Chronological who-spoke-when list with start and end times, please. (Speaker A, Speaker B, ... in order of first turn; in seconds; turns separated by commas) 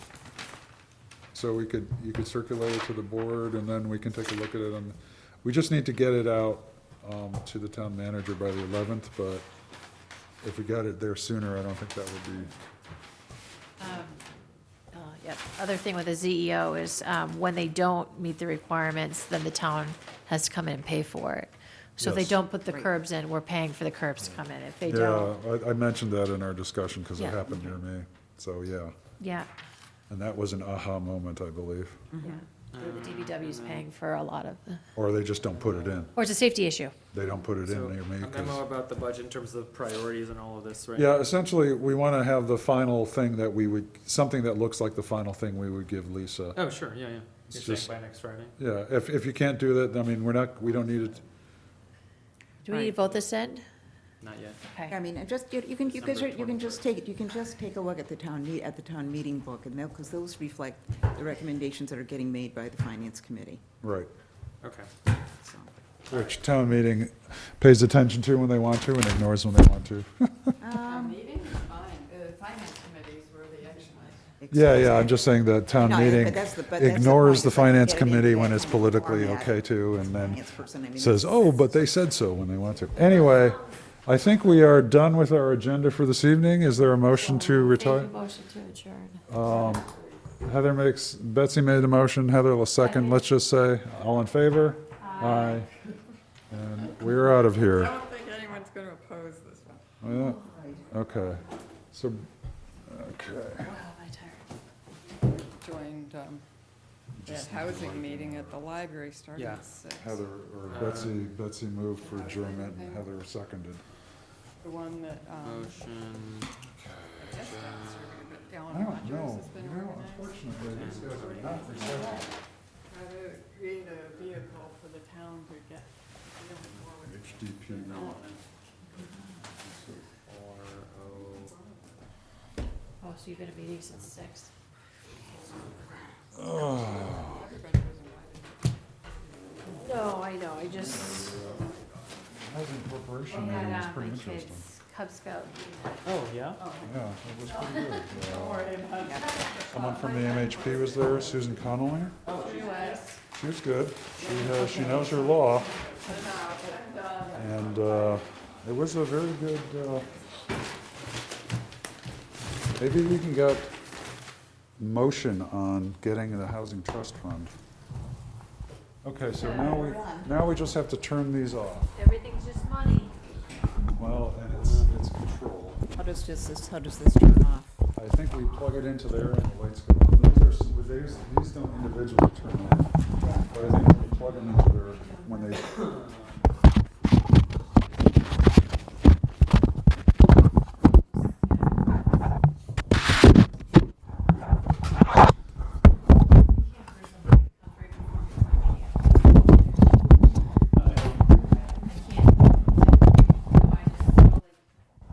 Speaker A: 1.3-9.4, Speaker A: 10.4-12.5, Speaker B: 13.8-14.2, Speaker B: 14.9-25.3, Speaker A: 22.0-22.4, Speaker A: 24.9-28.9, Speaker B: 27.2-27.7, Speaker B: 29.2-29.5, Speaker A: 30.1-32.0, Speaker C: 32.1-32.4, Speaker B: 32.2-34.8, Speaker D: 32.7-33.9, Speaker A: 35.0-36.1, Speaker D: 35.4-36.1, Speaker B: 36.1-36.9, Speaker A: 37.1-38.6, Speaker D: 37.6-41.2, Speaker A: 40.9-46.6, Speaker D: 46.5-48.5, Speaker A: 47.5-47.9, Speaker A: 48.6-51.2, Speaker B: 52.6-53.6, Speaker D: 52.7-53.2, Speaker D: 54.2-54.6, Speaker B: 54.6-54.9, Speaker C: 54.9-63.6, Speaker D: 55.8-56.8, Speaker A: 63.8-64.1, Speaker D: 64.6-64.9, Speaker C: 65.4-65.7, Speaker A: 66.1-70.5, Speaker C: 70.6-71.2, Speaker E: 70.8-74.3, Speaker C: 74.4-82.0, Speaker A: 74.5-80.4, Speaker A: 80.9-88.1, Speaker B: 83.0-83.7, Speaker B: 87.0-89.2, Speaker A: 89.3-89.9, Speaker A: 90.4-95.7, Speaker B: 92.8-93.3, Speaker B: 95.0-95.7, Speaker A: 96.5-98.0, Speaker E: 97.5-99.8, Speaker A: 100.0-102.3, Speaker C: 100.4-100.8, Speaker A: 102.8-103.7, Speaker B: 103.6-104.5, Speaker E: 105.6-106.4, Speaker A: 107.2-108.6, Speaker E: 107.2-110.3, Speaker D: 109.3-109.6, Speaker A: 110.0-113.8, Speaker D: 110.6-111.2, Speaker E: 112.0-113.2, Speaker E: 114.6-115.9, Speaker D: 115.4-116.5, Speaker D: 117.0-118.1, Speaker E: 117.2-122.1, Speaker A: 118.7-122.3, Speaker D: 120.6-121.6, Speaker B: 121.9-122.2, Speaker E: 122.9-128.4, Speaker D: 126.6-126.9, Speaker A: 127.1-128.2, Speaker D: 127.7-129.0, Speaker B: 129.0-129.2, Speaker A: 129.5-130.0, Speaker D: 130.2-131.5, Speaker E: 131.0-132.0, Speaker B: 133.0-134.5, Speaker E: 135.3-139.8, Speaker A: 136.3-137.4, Speaker B: 139.7-141.5, Speaker A: 142.4-144.7, Speaker B: 143.3-146.2, Speaker D: 146.0-146.6, Speaker A: 146.8-148.7, Speaker B: 147.4-148.2, Speaker E: 148.2-149.7, Speaker D: 148.5-149.1, Speaker C: 149.0-149.3, Speaker B: 149.1-151.4, Speaker A: 149.7-152.2, Speaker D: 152.2-152.7, Speaker E: 152.2-153.1, Speaker B: 152.4-153.2, Speaker A: 153.3-155.7, Speaker B: 154.2-156.2, Speaker E: 155.3-158.3, Speaker A: 157.3-160.2, Speaker A: 162.8-163.7, Speaker A: 164.8-167.5, Speaker A: 169.0-171.9, Speaker B: 169.3-169.9, Speaker C: 169.5-170.3, Speaker B: 171.9-173.1, Speaker A: 173.9-175.9, Speaker D: 174.6-174.9, Speaker C: 175.9-177.8, Speaker A: 177.9-185.8, Speaker C: 183.2-183.5, Speaker B: 183.9-185.9, Speaker D: 184.3-184.6, Speaker D: 185.7-186.4, Speaker B: 191.0-192.2, Speaker B: 196.5-199.5, Speaker D: 200.7-201.6, Speaker B: 201.8-204.5